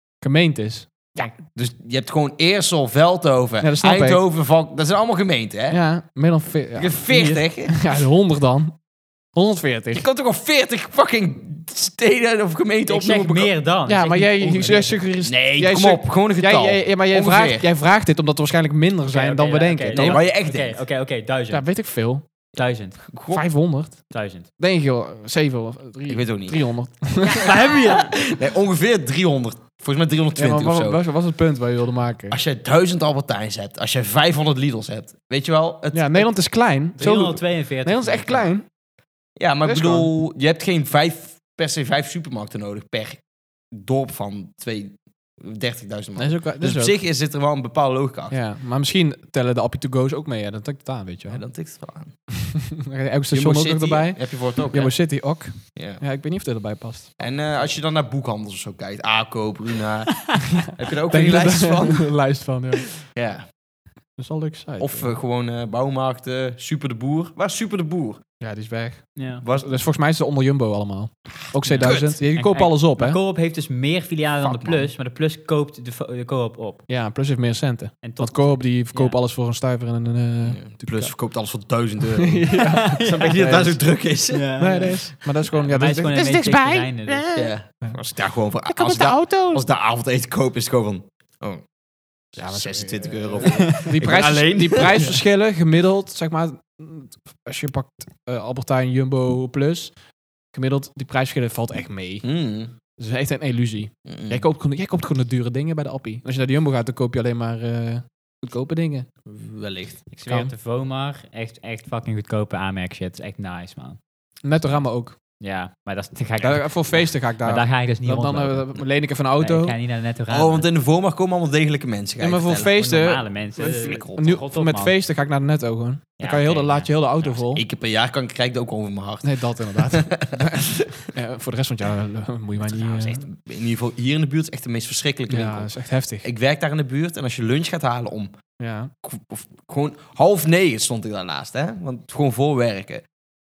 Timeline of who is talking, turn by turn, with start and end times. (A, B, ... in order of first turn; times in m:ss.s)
0:00.2-0:00.9 A
0:01.2-0:05.8 B
0:03.6-0:04.2 A
0:05.7-0:08.7 A
0:06.8-0:07.8 B
0:07.1-0:07.4 C
0:09.3-0:10.0 A
0:09.9-0:13.5 B
0:12.9-0:15.0 C
0:13.9-0:20.2 A
0:15.2-0:17.6 B
0:19.1-0:21.7 C
0:19.9-0:20.8 B
0:21.5-0:22.2 A
0:22.5-0:23.0 C
0:23.0-0:23.4 B
0:23.3-0:27.5 A
0:24.1-0:24.5 C
0:26.1-0:26.7 B
0:27.2-0:28.2 C
0:27.6-0:31.0 B
0:30.4-0:32.4 A
0:32.3-0:36.3 B
0:35.9-0:38.6 A
0:37.0-0:38.5 C
0:39.4-0:48.3 B
0:39.6-0:40.1 A
0:46.2-0:47.0 A
0:48.3-0:51.4 A
0:51.3-0:52.1 B
0:52.7-0:57.1 A
0:53.3-0:55.2 B
0:55.7-0:56.0 B
0:57.2-1:02.1 B
1:00.5-1:02.9 A
1:03.0-1:03.5 B
1:04.2-1:05.1 A
1:04.8-1:08.2 B
1:08.4-1:13.2 A
1:09.2-1:09.4 C
1:09.4-1:09.7 B
1:11.6-1:16.8 C
1:11.8-1:12.2 B
1:14.4-1:14.9 B
1:16.9-1:21.1 A
1:18.0-1:19.2 C
1:20.4-1:24.5 B
1:22.2-1:23.8 A
1:22.5-1:23.8 C
1:24.3-1:27.4 C
1:24.6-1:27.2 A
1:27.3-1:31.6 B
1:28.8-1:29.6 A
1:32.3-1:35.1 B
1:32.4-1:39.9 A
1:33.5-1:33.8 C
1:40.5-1:42.3 A
1:42.2-1:42.7 B
1:43.0-1:49.1 A
1:44.0-1:44.4 B
1:49.3-1:50.0 B
1:50.1-1:54.0 C
1:50.2-1:50.5 A
1:54.4-1:55.2 A
1:55.4-1:58.7 C
1:56.4-1:59.7 A
1:59.4-2:00.6 C
2:00.3-2:02.7 B
2:02.2-2:03.2 A
2:02.7-2:04.9 C
2:03.6-2:04.4 B
2:03.9-2:07.6 A
2:06.2-2:06.9 C
2:07.2-2:11.1 B
2:09.2-2:13.2 A
2:12.7-2:18.3 B
2:15.3-2:16.3 A
2:18.6-2:18.9 A
2:19.0-2:23.0 B